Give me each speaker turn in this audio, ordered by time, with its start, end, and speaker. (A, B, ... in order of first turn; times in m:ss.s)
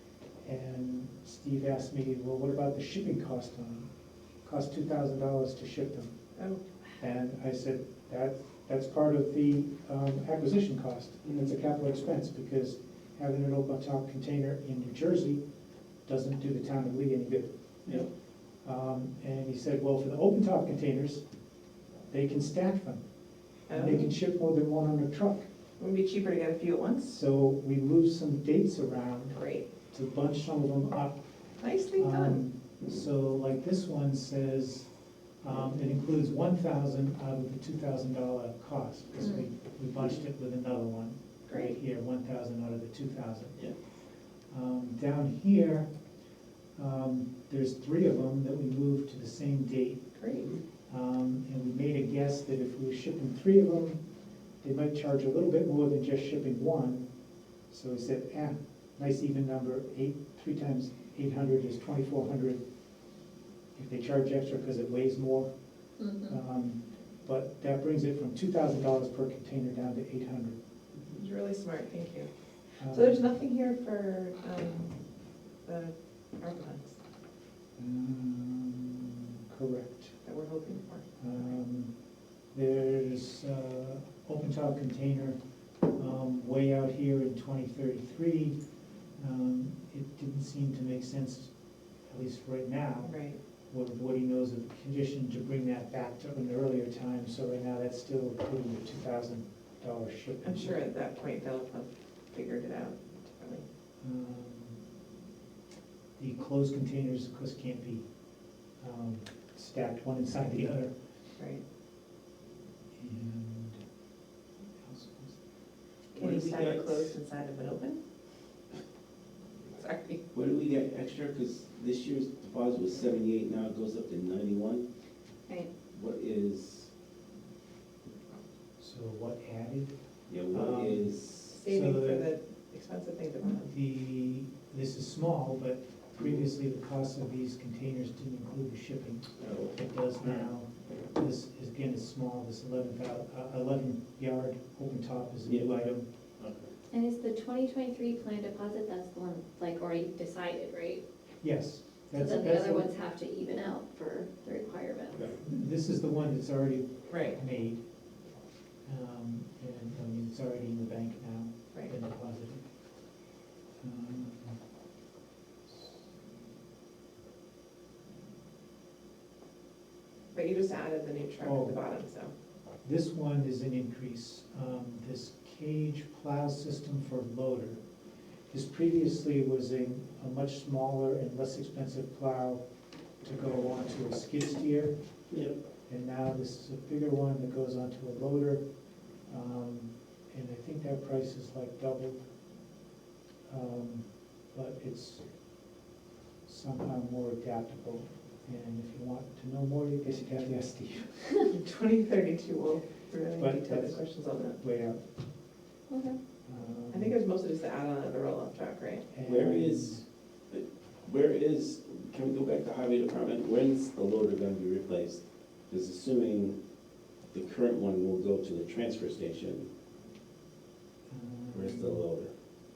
0:00.4-0:03.9 A
0:04.4-0:06.1 A
0:07.0-0:15.4 A
0:11.2-0:11.6 B
0:16.1-0:17.5 A
0:18.6-0:21.2 A
0:22.1-0:23.0 A
0:23.7-0:24.1 C
0:23.7-0:25.5 A
0:25.8-0:27.2 C
0:27.1-0:29.4 A
0:29.3-0:29.7 C
0:29.9-0:31.2 A
0:31.6-0:32.4 C
0:32.0-0:34.9 A
0:35.4-0:43.6 A
0:41.5-0:41.7 C
0:44.5-0:45.9 A
0:46.8-0:50.1 A
0:50.2-0:50.5 C
0:50.9-0:54.0 A
0:54.6-0:57.1 A
0:57.7-1:02.6 A
1:03.8-1:05.5 A
1:06.0-1:06.3 D
1:06.2-1:10.6 A
1:11.2-1:12.3 C
1:12.8-1:13.2 A
1:12.8-1:15.0 C
1:15.6-1:17.0 C
1:17.8-1:20.2 A
1:20.2-1:21.1 C
1:21.2-1:21.9 A
1:22.5-1:25.4 A
1:25.9-1:28.6 A
1:29.2-1:31.5 A
1:32.0-1:33.2 A
1:33.0-1:33.4 C
1:33.7-1:40.8 A
1:40.4-1:43.6 C
1:44.0-1:44.8 A
1:46.2-1:48.0 A
1:48.8-1:50.9 A
1:51.4-1:51.6 C
1:53.0-1:53.8 A
1:54.8-1:55.4 A
1:56.1-1:58.0 C
1:56.2-1:57.2 B
1:59.8-2:00.2 C
2:00.3-2:04.8 B
2:05.9-2:06.9 B
2:08.8-2:09.9 A
2:10.3-2:11.4 B
2:10.5-2:12.3 A
2:11.5-2:13.7 C
2:13.6-2:26.0 A
2:19.4-2:20.5 B
2:25.5-2:25.7 B
2:26.4-2:26.7 B
2:26.9-2:31.0 D
2:31.4-2:32.9 A
2:32.1-2:35.2 D
2:35.3-2:37.8 A
2:37.1-2:37.4 C
2:38.8-2:42.6 A
2:43.8-2:44.6 A
2:50.3-2:52.3 C
2:51.4-2:51.8 A
2:52.8-2:57.8 A
2:58.5-3:02.6 A
3:03.2-3:04.9 A
3:05.3-3:05.6 B
3:05.9-3:08.6 A
3:09.3-3:12.2 A
3:13.5-3:15.2 A
3:16.5-3:21.5 A
3:21.5-3:24.6 C
3:23.4-3:24.0 A
3:24.6-3:25.0 A
3:25.9-3:26.2 D
3:26.5-3:27.2 A
3:26.9-3:29.1 C
3:29.1-3:30.0 A
3:29.2-3:36.6 B
3:37.3-3:39.7 B
3:41.1-3:42.0 A
3:41.5-3:42.3 B